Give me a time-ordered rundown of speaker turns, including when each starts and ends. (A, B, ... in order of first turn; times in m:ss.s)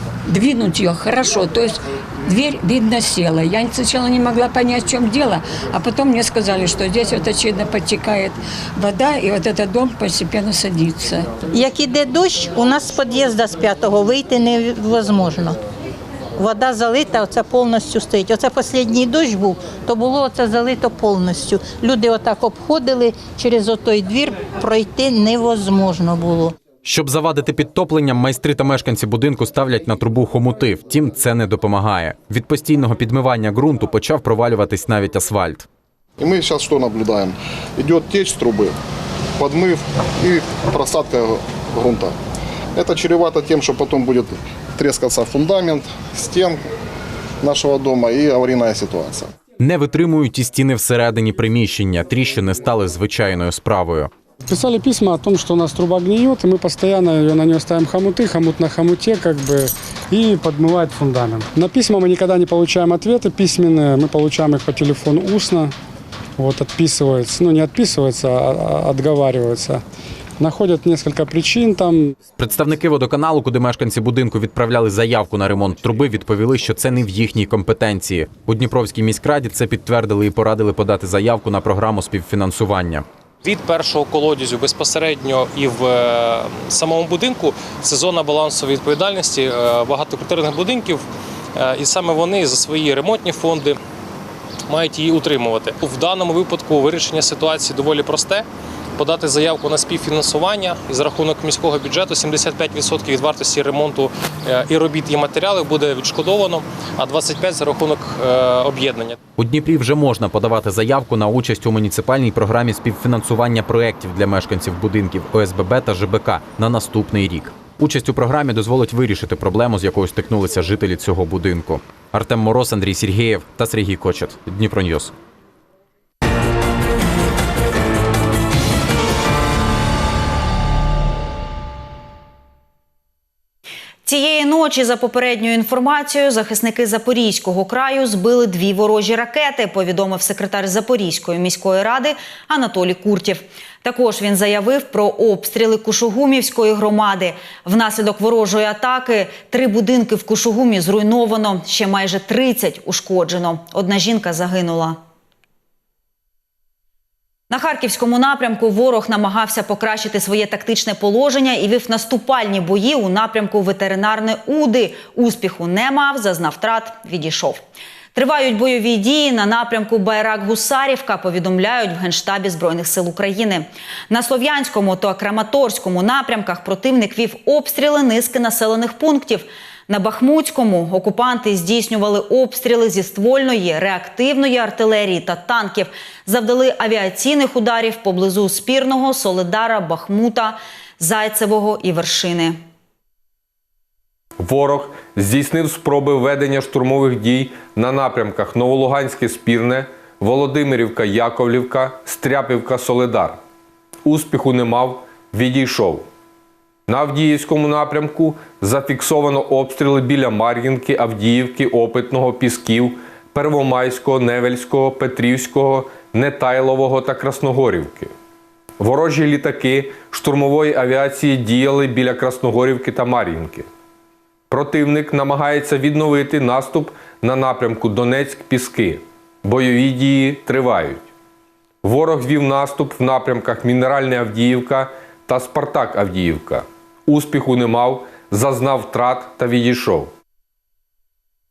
0:00.4-0:01.7 A
0:02.3-0:08.3 A
0:08.8-0:11.2 A
0:11.5-0:15.6 B
0:16.4-0:26.5 B
0:26.8-0:35.7 C
0:36.2-0:38.8 D
0:39.4-0:42.1 D
0:42.8-0:46.6 D
0:47.4-0:49.3 D
0:49.6-0:54.1 C
0:54.5-1:05.7 E
1:06.4-1:09.8 E
1:10.4-1:12.0 E
1:12.4-1:23.0 C
1:23.4-1:31.0 F
1:31.6-1:33.8 F
1:34.7-1:49.2 F
1:49.4-2:05.1 C
2:14.0-2:35.0 G
2:37.5-2:47.6 G
2:48.1-3:12.6 G
3:14.4-3:23.4 H
3:24.0-3:26.1 H
3:26.9-3:38.1 H
3:38.8-3:43.7 H
3:44.5-3:51.0 H
3:51.8-4:00.1 H